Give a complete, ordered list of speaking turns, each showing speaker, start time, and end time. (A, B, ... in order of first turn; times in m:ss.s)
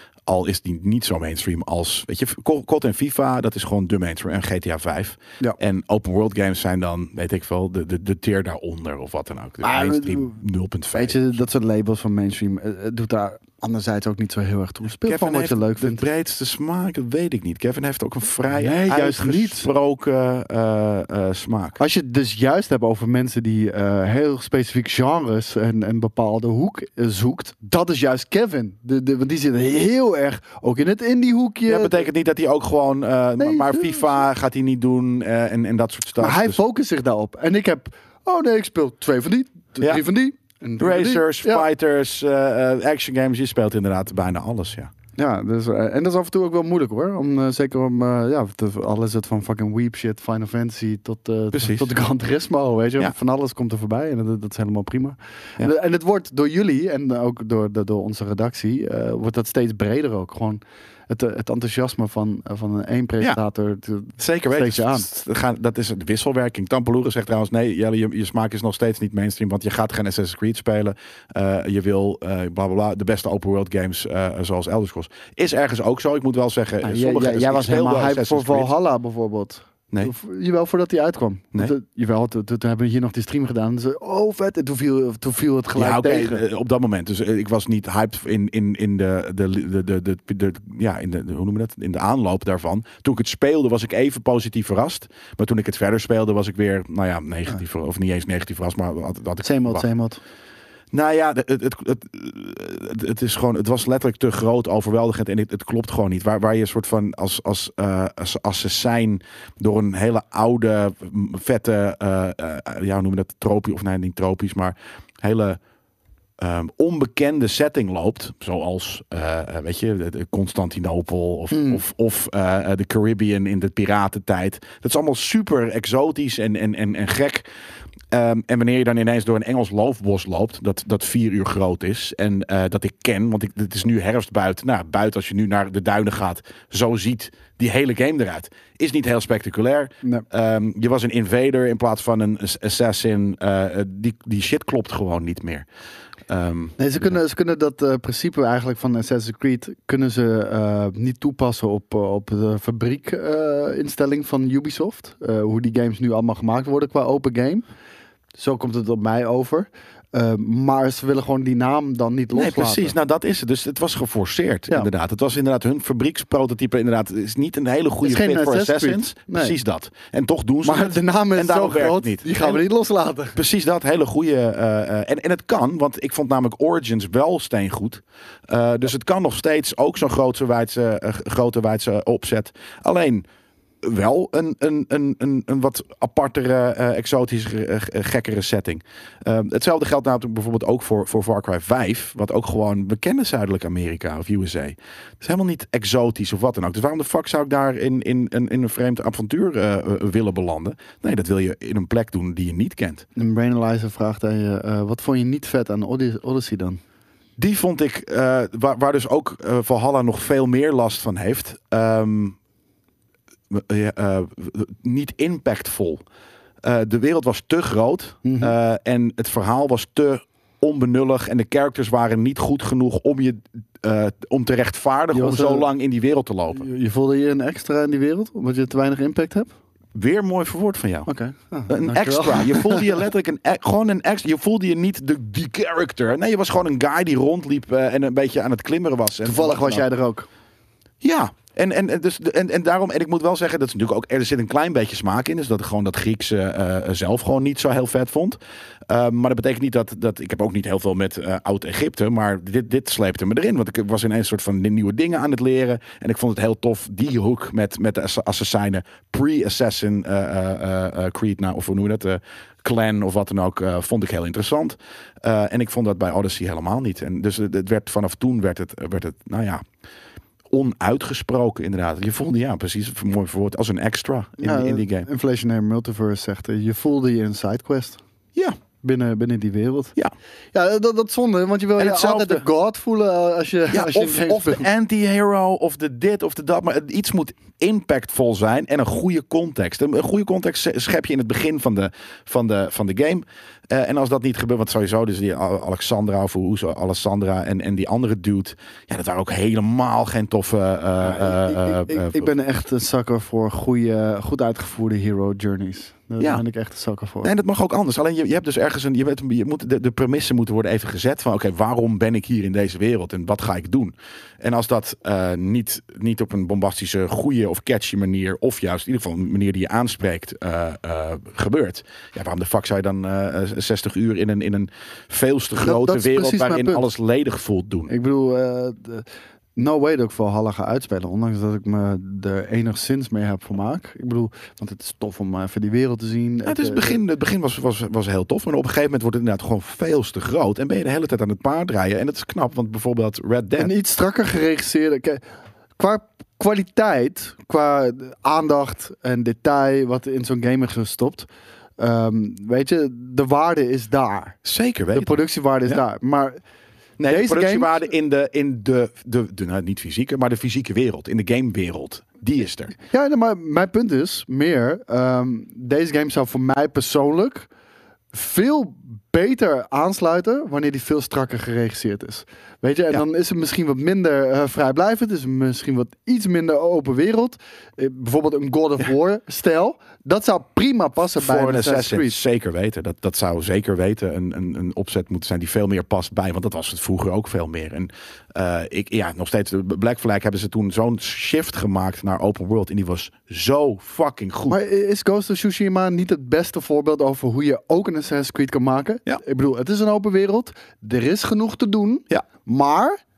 0:00.2-0:11.4 A
0:09.6-0:10.4 B
0:10.9-0:16.0 B
0:15.0-0:21.8 A
0:18.5-0:19.7 B
0:21.8-0:32.1 B
0:31.7-0:36.6 A
0:33.4-0:34.1 B
0:36.2-0:41.7 B
0:40.8-0:44.9 A
0:45.2-1:05.1 B
0:51.5-0:51.9 A
1:04.2-1:18.7 A
1:16.8-1:26.4 B
1:25.7-1:39.8 A
1:39.4-1:40.2 B
1:40.9-1:55.6 A
1:56.4-2:07.4 A
2:01.5-2:01.8 B
2:08.1-2:25.6 A
2:26.3-2:27.2 A
2:26.8-2:37.6 B
2:38.4-2:42.9 B
2:42.3-2:52.6 A
2:48.0-2:49.5 B
2:50.6-2:53.4 B
2:53.3-3:03.2 A
3:03.8-3:23.0 A
3:23.2-3:26.8 B
3:27.4-3:32.4 A
3:33.5-3:36.0 A
3:36.6-3:46.6 A
3:38.2-3:38.5 B
3:45.1-3:45.7 B
3:46.5-3:49.5 B
3:49.9-3:51.1 A
3:51.1-3:53.0 B
3:51.7-3:59.8 A
3:59.2-4:00.3 B
4:01.0-4:29.6 A
4:30.5-4:35.1 A
4:34.4-4:38.0 B
4:38.8-4:39.9 B
4:40.5-4:44.6 B
4:41.8-4:42.4 A
4:43.7-5:02.3 A
5:01.0-5:07.3 B
5:07.2-5:27.9 A
5:25.6-5:26.8 B
5:27.9-5:37.0 B
5:36.4-5:43.7 A
5:43.6-5:45.2 B
5:45.8-5:54.4 B
5:54.4-5:55.1 A
5:54.9-5:56.4 B
5:57.0-6:02.7 A
5:57.1-5:57.9 B
6:02.8-6:07.5 B
6:08.1-6:22.2 B
6:21.2-6:34.6 A
6:34.5-6:43.0 B